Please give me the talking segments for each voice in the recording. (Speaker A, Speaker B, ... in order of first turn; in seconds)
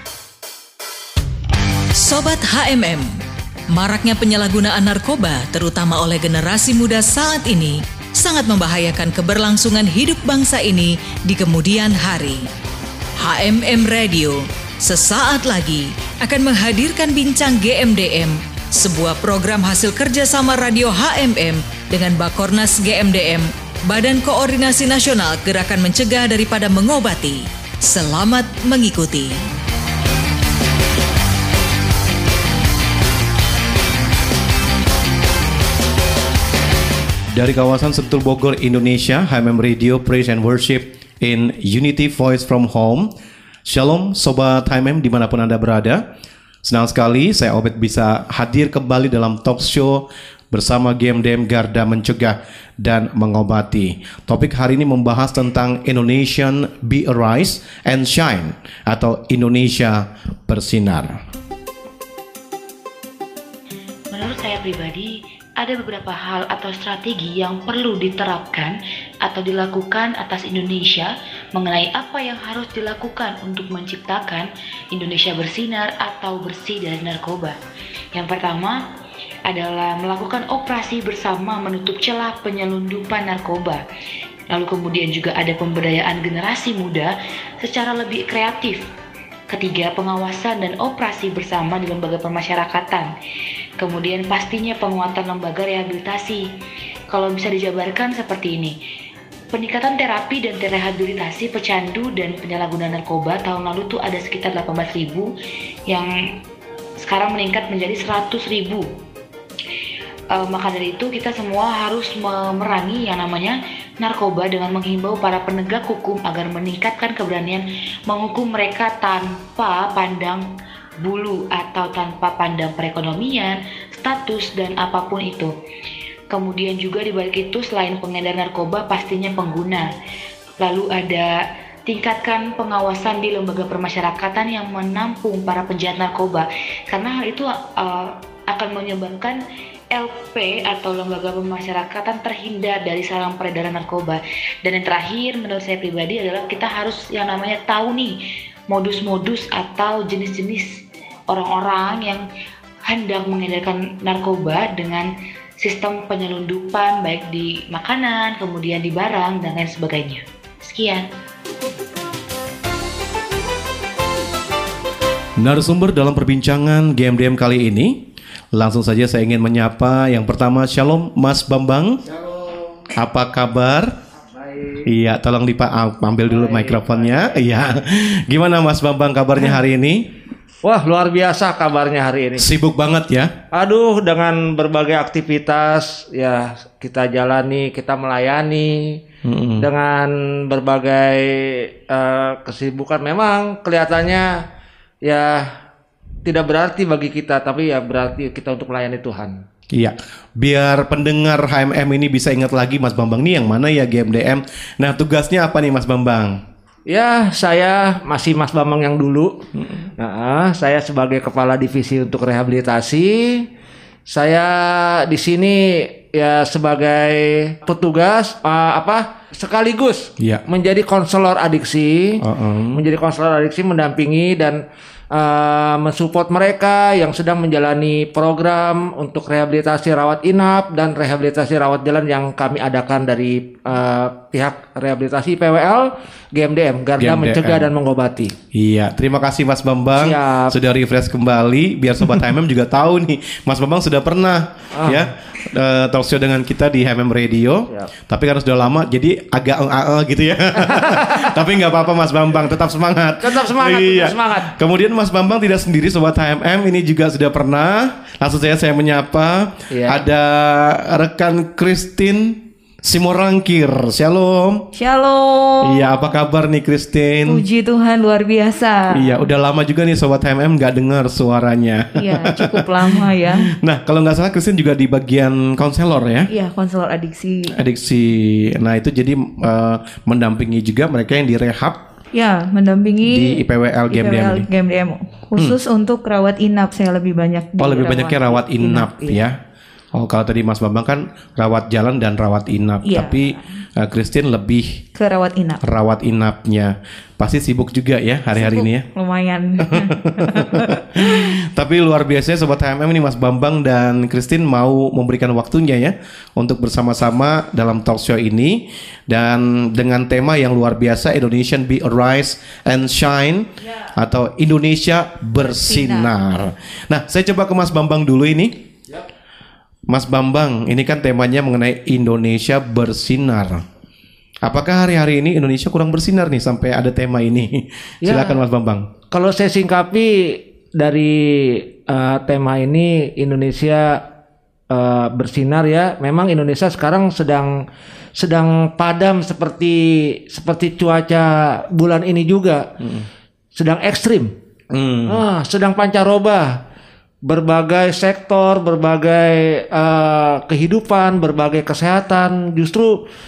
Speaker A: 1.9-3.1, 3.7-12.4, 13.2-29.3
Speaker B: 37.3-43.1, 43.6-46.0, 46.6-61.2, 165.4-168.0, 168.5-172.0, 172.9-173.9, 174.8-180.0, 182.4-183.3, 189.2-189.7, 199.7-206.4, 220.2-220.4, 222.2-222.8, 237.0-237.7, 238.5-264.7, 265.6-267.4, 268.9-276.3, 277.5-281.8, 283.0-284.5, 287.6-289.4, 289.9-294.8, 295.6-298.8, 299.7-318.5, 319.9-323.6, 324.4-328.9, 342.8-343.1, 344.7-345.2
Speaker C: 64.1-77.6, 78.1-78.8, 79.5-83.8, 84.5-88.8, 89.5-93.1, 93.8-96.5, 97.1-98.8, 99.5-105.3, 107.0-108.9, 110.3-120.5, 121.0-125.5, 126.3-129.9, 130.6-148.2, 148.7-152.2, 152.9-161.1
Speaker D: 174.3-174.9, 176.3-177.5, 180.6-182.5, 183.5-189.0, 189.6-194.4, 195.0-195.5, 196.2-199.4, 206.9-209.4, 210.0-213.5, 214.1-222.2, 222.7-238.3, 239.9-240.5, 244.8-245.1, 250.7-251.3, 253.2-254.5, 259.7-260.0, 328.0-328.4, 329.1-334.0, 334.7-337.6, 338.2-342.7, 343.6-344.3, 345.1-346.6, 347.2-353.0
Speaker E: 264.7-266.0, 267.2-269.2, 271.9-273.5, 276.3-277.5, 282.1-289.2, 292.8-293.4, 294.9-295.6, 298.4-301.0, 315.4-316.1